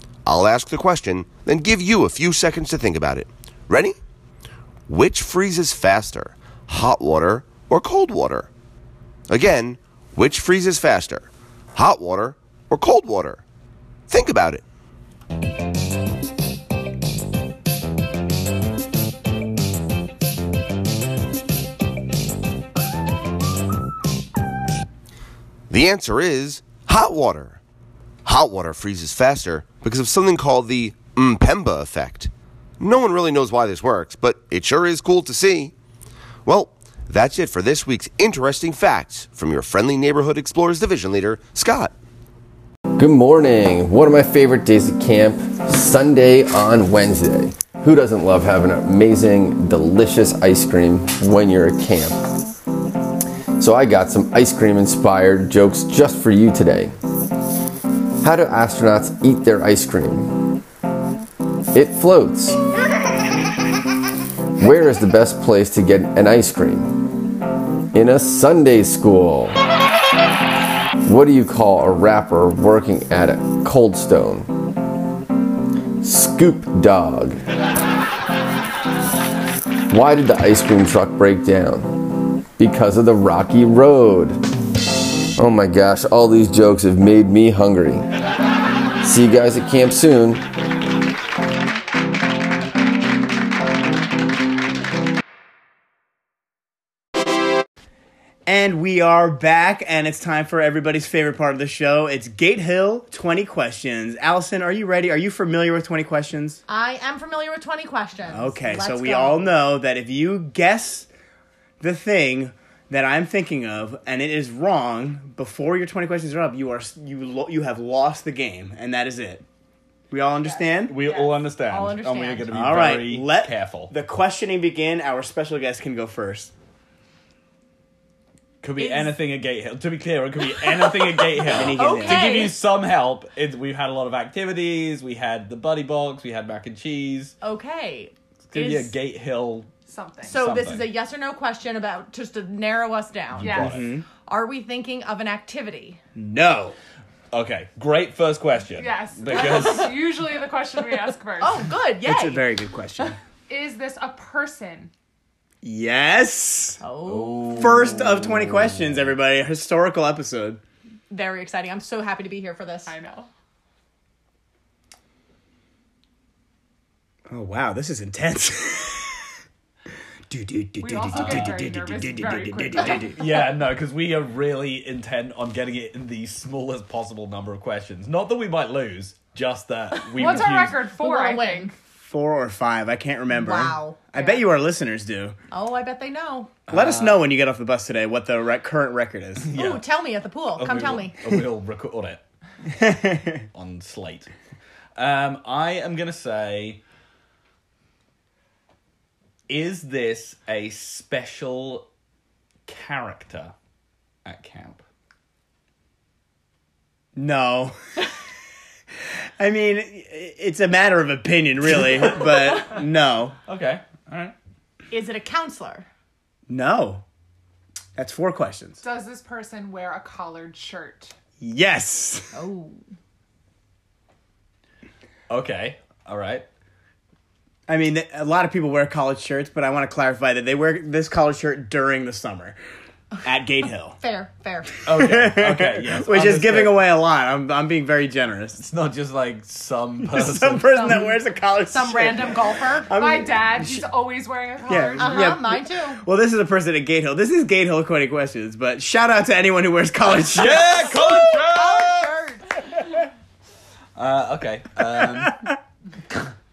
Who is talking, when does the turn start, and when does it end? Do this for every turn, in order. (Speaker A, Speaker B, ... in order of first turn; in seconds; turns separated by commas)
Speaker A: 0.2-4.0, Speaker A: 4.9-8.5, Speaker A: 9.3-13.4, Speaker A: 14.1-14.6, Speaker A: 25.7-27.6, Speaker A: 28.2-35.7, Speaker A: 36.5-42.0, Speaker B: 43.0-52.2, Speaker B: 53.6-56.9, Speaker B: 58.2-60.6, Speaker B: 61.7-62.6, Speaker B: 64.6-67.2, Speaker B: 67.9-69.6, Speaker B: 71.0-74.5, Speaker B: 76.0-77.3, Speaker B: 79.9-84.4, Speaker B: 85.4-88.1, Speaker B: 89.0-90.4, Speaker C: 98.5-106.6, Speaker D: 106.7-109.5, Speaker C: 108.3-111.1, Speaker C: 111.8-119.5, Speaker C: 120.1-121.0, Speaker E: 120.4-121.5, Speaker F: 120.8-123.9, Speaker D: 121.5-122.5, Speaker C: 122.5-126.5, Speaker F: 128.6-137.4, Speaker D: 128.8-129.2, Speaker C: 131.5-132.3, Speaker D: 131.5-132.6, Speaker D: 137.4-138.9, Speaker F: 138.5-139.7, Speaker E: 139.9-140.4, Speaker D: 140.2-146.0, Speaker F: 140.4-140.9, Speaker F: 143.3-144.0, Speaker E: 143.4-143.7, Speaker C: 143.6-144.1, Speaker C: 146.2-146.8, Speaker F: 147.3-149.9, Speaker E: 148.8-151.6, Speaker D: 149.5-149.8, Speaker D: 151.4-152.5, Speaker C: 152.0-153.2, Speaker E: 153.5-154.9, Speaker C: 155.6-156.8, Speaker D: 156.8-157.9, Speaker F: 157.1-159.1, Speaker C: 157.5-160.6, Speaker D: 161.1-162.9, Speaker E: 162.9-163.3, Speaker C: 167.3-169.3, Speaker C: 170.3-173.2, Speaker E: 170.8-173.2, Speaker F: 171.1-171.7, Speaker F: 173.1-180.8, Speaker D: 180.1-181.8, Speaker E: 180.2-181.7, Speaker C: 181.9-185.4, Speaker D: 183.3-184.5, Speaker D: 185.5-186.6, Speaker F: 186.7-187.2, Speaker C: 186.7-189.5, Speaker F: 189.4-189.9, Speaker D: 189.6-191.4, Speaker F: 190.5-192.2, Speaker C: 192.7-193.3, Speaker F: 193.5-194.3, Speaker F: 195.0-196.8, Speaker F: 199.5-201.9, Speaker F: 202.7-203.5, Speaker F: 204.2-204.8, Speaker C: 207.2-207.8, Speaker C: 209.4-213.4, Speaker F: 213.5-214.3, Speaker D: 214.9-215.9, Speaker C: 216.5-217.0, Speaker C: 218.0-218.8, Speaker E: 218.8-221.2, Speaker C: 221.4-222.3, Speaker D: 222.3-222.8, Speaker F: 225.3-226.5, Speaker C: 227.7-232.6, Speaker C: 233.2-234.0, Speaker D: 234.0-234.8, Speaker C: 234.8-238.6, Speaker F: 234.9-236.8, Speaker F: 238.6-241.0, Speaker C: 240.0-243.8, Speaker D: 240.7-241.2, Speaker D: 241.7-243.0, Speaker E: 243.0-245.4, Speaker C: 244.7-250.9, Speaker D: 244.9-246.0, Speaker F: 250.2-252.2, Speaker D: 250.4-252.7, Speaker F: 254.0-255.6, Speaker F: 256.1-256.3